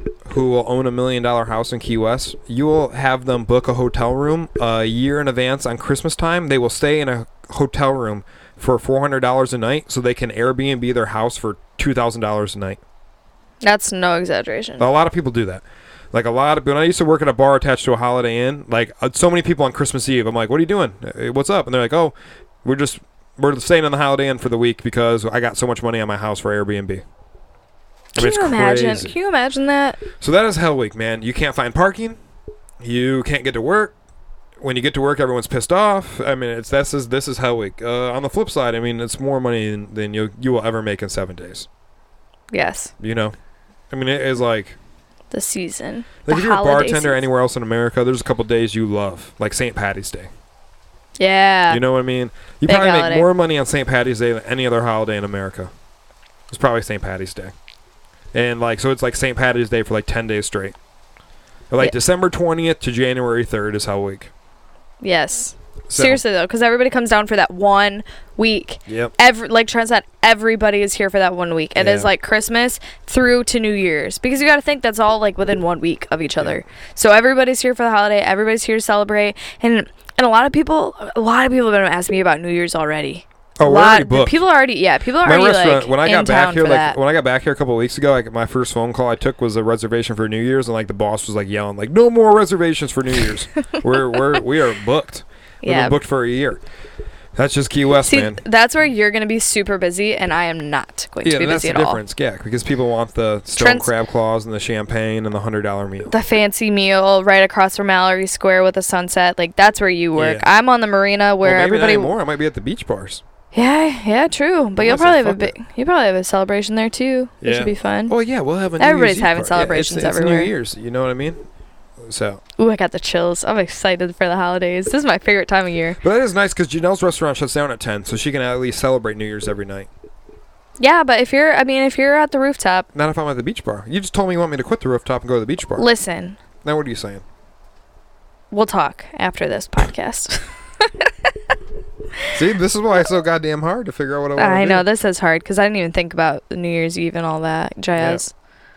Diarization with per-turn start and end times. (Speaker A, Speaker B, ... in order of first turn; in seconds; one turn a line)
Speaker A: 0.3-12.8
Speaker B: 13.6-14.9
Speaker A: 14.8-27.0
Speaker B: 28.1-30.0
Speaker A: 28.2-29.1
Speaker A: 30.1-32.2
Speaker A: 32.8-33.9
Speaker A: 34.6-41.7
Speaker B: 42.5-42.9
Speaker A: 43.0-43.3
Speaker A: 43.9-44.8
Speaker B: 45.3-47.2
Speaker A: 46.2-50.3
Speaker B: 51.2-51.8
Speaker A: 51.7-55.7
Speaker B: 52.6-53.3
Speaker A: 56.5-57.5
Speaker A: 58.3-60.8
Speaker A: 61.7-64.3
Speaker B: 65.0-87.0
Speaker A: 65.9-66.2
Speaker A: 68.9-69.1
Speaker A: 71.8-72.1
Speaker A: 83.6-84.4
Speaker A: 85.2-96.6
Speaker B: 93.6-94.3
Speaker B: 95.6-95.9
Speaker A: 97.3-98.4
Speaker B: 98.0-102.0
Speaker A: 101.2-106.1
Speaker B: 103.6-103.9
Speaker B: 106.1-112.1
Speaker A: 110.2-110.5
Speaker A: 111.4-113.2
Speaker B: 113.5-118.1
Speaker A: 114.8-115.5
Speaker A: 117.4-121.4
Speaker B: 118.8-120.5
Speaker A: 122.0-122.4
Speaker B: 122.6-126.0
Speaker A: 126.0-129.9
Speaker B: 130.8-132.9
Speaker A: 132.9-135.9
Speaker B: 135.8-136.4
Speaker A: 136.6-137.2
Speaker B: 138.5-141.3
Speaker A: 142.3-144.8
Speaker B: 144.4-148.3